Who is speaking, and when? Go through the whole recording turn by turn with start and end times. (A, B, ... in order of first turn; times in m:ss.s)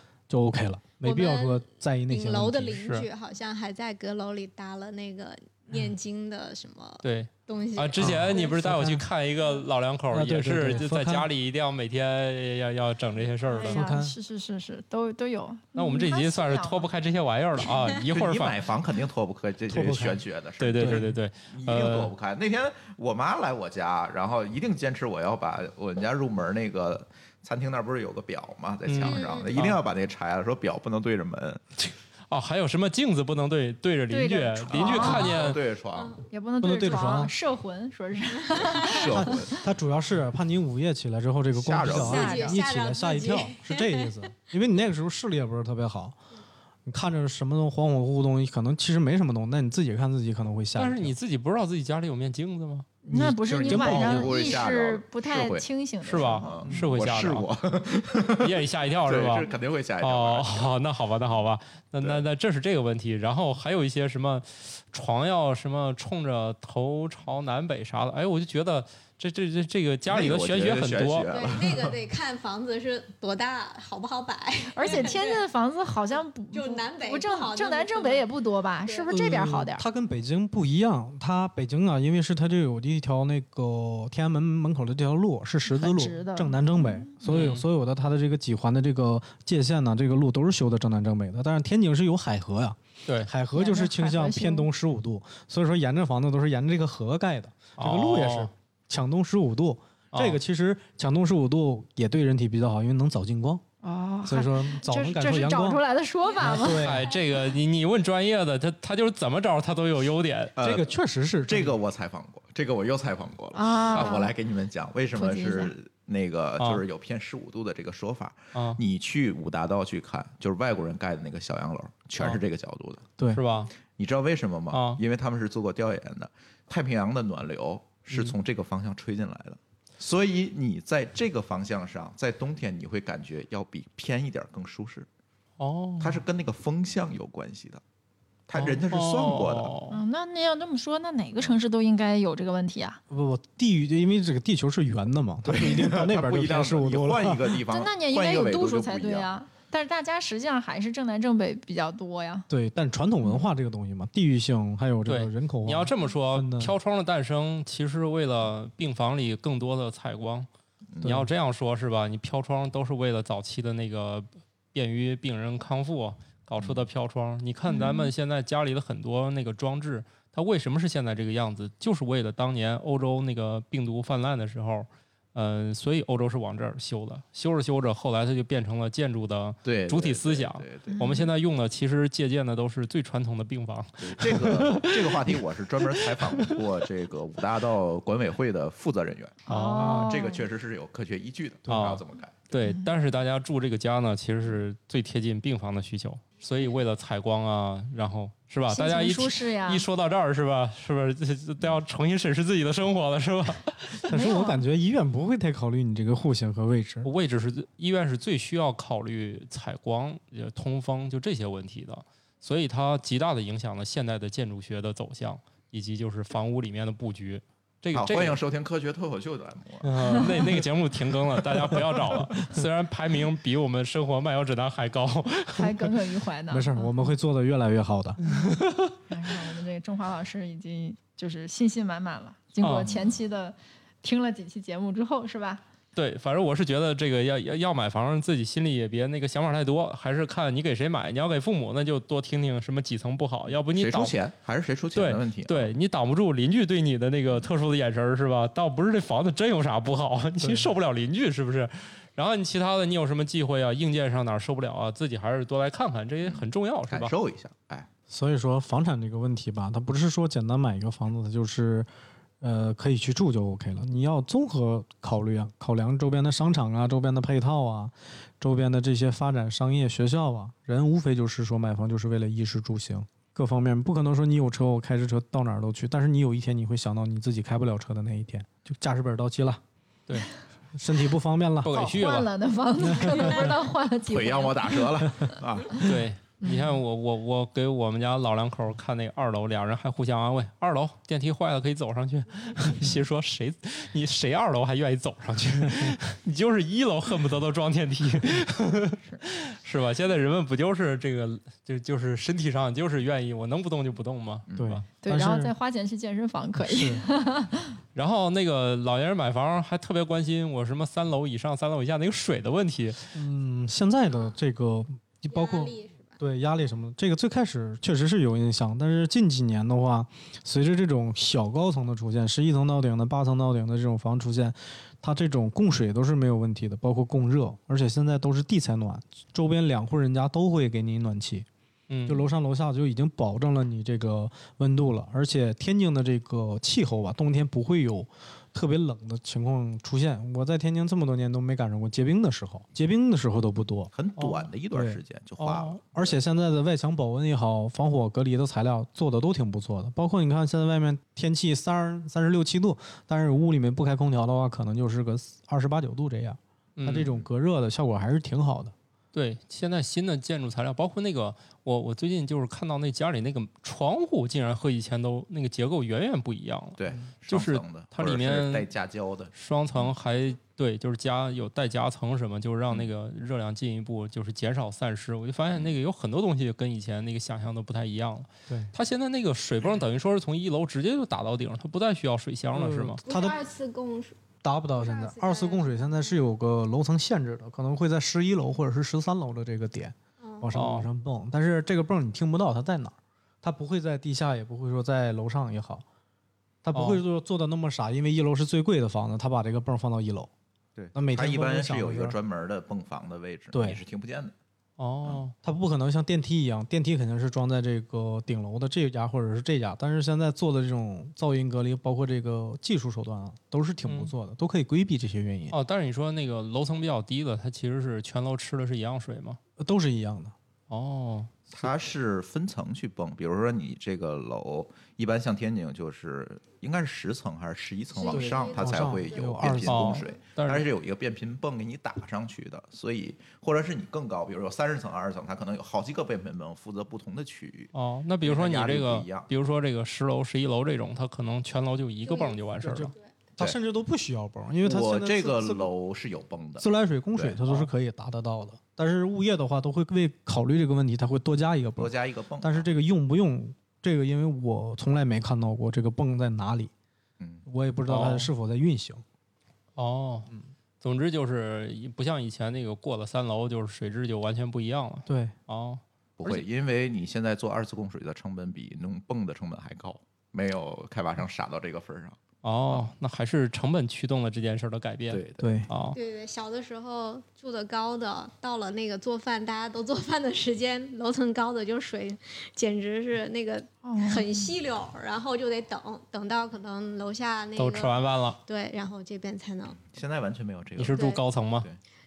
0:00.3-0:02.9 A
0:01.0-0:08.6 B
0:02.8-0:03.1 C
0:07.0-0:13.9 C
0:08.0-0:09.0 A
0:10.1-0:11.3 A
0:13.5-0:16.9 D
0:13.6-0:14.2 A
0:15.8-0:18.6 C
0:18.0-0:31.6 E
0:19.7-0:20.2 A
0:20.6-0:22.1 C
0:20.8-0:21.1 A
0:28.9-0:29.8 C
0:29.0-0:29.6 B
0:31.8-0:35.6 C
0:34.1-0:35.4 D
0:34.7-0:36.2 E
0:35.9-0:36.2 B
0:36.3-0:39.5 D
0:36.6-0:37.3 A
0:38.5-0:38.8 B
0:38.6-0:39.6 E
0:39.0-0:46.2 A
0:41.5-0:42.5 E
0:41.9-0:44.1 B
0:42.0-0:42.6 D
0:46.9-0:51.1 A
0:50.8-0:53.0 C
0:53.0-0:56.6 D
0:53.1-0:54.3 A
0:53.4-0:55.7 E
0:53.7-0:54.2 C
0:56.0-0:57.5 C
0:56.3-1:00.7 E
0:58.4-0:59.5 C
1:00.0-1:11.3 C
1:10.1-1:12.0 E
1:11.3-1:15.4 B
1:14.7-1:19.8 D
1:16.5-1:18.3 B
1:18.8-1:19.1 B
1:19.1-1:43.7 A
1:25.7-1:27.1 D
1:27.3-1:27.6 C
1:33.5-1:34.7 D
1:37.8-1:38.5 C
1:40.1-1:40.4 C
1:43.8-1:46.9 D
1:44.2-1:45.8 A
1:46.3-1:47.5 B
1:46.4-1:47.1 A
1:46.4-1:50.6 C
1:50.6-1:50.9 E
1:50.6-1:51.8 A
1:51.5-2:03.1 E
1:53.5-1:54.4 D
1:55.1-1:55.7 D
1:56.6-1:56.8 C
1:58.5-1:58.8 C
2:03.3-2:03.7 C
2:03.9-2:15.1 E
2:04.7-2:05.0 C
2:15.6-2:16.2 C
2:16.0-2:17.8 E
2:18.5-2:19.7 E
2:18.6-2:20.0 C
2:19.9-2:23.0 D
2:23.1-2:27.6 A
2:25.5-2:29.3 E
2:27.6-2:32.5 D
2:32.5-2:36.7 A
2:35.1-2:40.5 C
2:41.0-2:41.3 A
2:41.0-3:06.6 C
2:47.7-2:48.1 D
2:59.6-3:01.0 E
3:00.9-3:01.3 D
3:04.0-3:12.5 E
3:09.5-3:10.5 D
3:09.5-3:10.2 C
3:11.7-3:24.0 C
3:18.7-3:19.9 D
3:24.1-3:24.6 D
3:24.1-3:27.1 A
3:27.0-3:38.4 C
3:37.9-3:40.6 E
3:39.8-3:45.8 C
3:45.6-3:47.0 D
3:46.5-3:48.2 A
3:48.3-3:49.0 C
3:49.1-3:55.6 D
3:52.6-3:52.9 C
3:56.0-4:04.2 C
4:03.8-4:05.7 E
4:04.9-4:17.1 C
4:16.2-4:17.9 E
4:18.1-4:21.9 A
4:22.4-4:39.6 A
4:40.7-4:41.8 A
4:41.6-4:42.3 C
4:41.7-4:45.4 D
4:42.8-4:43.5 A
4:44.1-4:46.0 E
4:45.8-5:04.8 C
5:04.5-5:04.8 E
5:04.6-5:05.5 A
5:05.0-5:07.8 D
5:06.6-5:07.0 A
5:08.0-5:13.0 C
5:13.1-5:31.5 A
5:15.3-5:16.2 B
5:31.9-5:32.3 C
5:32.1-5:43.9 A
5:43.9-5:46.2 E
5:44.2-5:44.5 C
5:44.7-5:45.0 A
5:45.4-5:45.8 C
5:45.9-5:58.7 A
5:56.8-5:57.1 C
5:57.0-5:57.3 E
5:59.1-6:08.7 C
6:06.8-6:09.9 E
6:09.3-6:23.0 C
6:22.5-6:23.4 A
6:23.0-6:24.2 B
6:24.4-6:35.8 A
6:24.8-6:26.2 B
6:30.2-6:30.5 B
6:30.5-6:30.9 C
6:36.6-6:40.3 A
6:36.7-6:37.0 C
6:40.8-6:44.3 E
6:40.9-6:42.2 A
6:43.5-6:43.8 A
6:44.8-6:45.3 C
6:45.4-6:55.6 A
6:53.8-6:54.1 C
6:55.5-6:59.4 C
6:59.6-7:00.3 A
7:00.7-7:01.3 C
7:01.5-7:19.3 E
7:07.9-7:09.5 B
7:08.1-7:10.0 A
7:09.7-7:10.6 C
7:17.7-7:22.9 C
7:22.1-7:22.4 B
7:22.6-7:25.7 A
7:24.6-7:27.4 E
7:26.6-7:36.7 A
7:31.8-7:32.7 E
7:37.2-7:37.5 E
7:37.5-7:39.0 A
7:37.9-7:38.3 C
7:39.8-7:40.3 C
7:40.8-7:46.4 C
7:45.1-7:45.4 A
7:46.2-7:52.8 E
7:52.4-7:56.0 C
7:55.1-7:55.6 E
7:55.4-7:55.7 A
7:56.0-8:09.9 B
8:03.8-8:04.5 D
8:07.6-8:08.4 C
8:09.9-8:11.0 E
8:10.8-8:11.7 C
8:10.9-8:11.2 B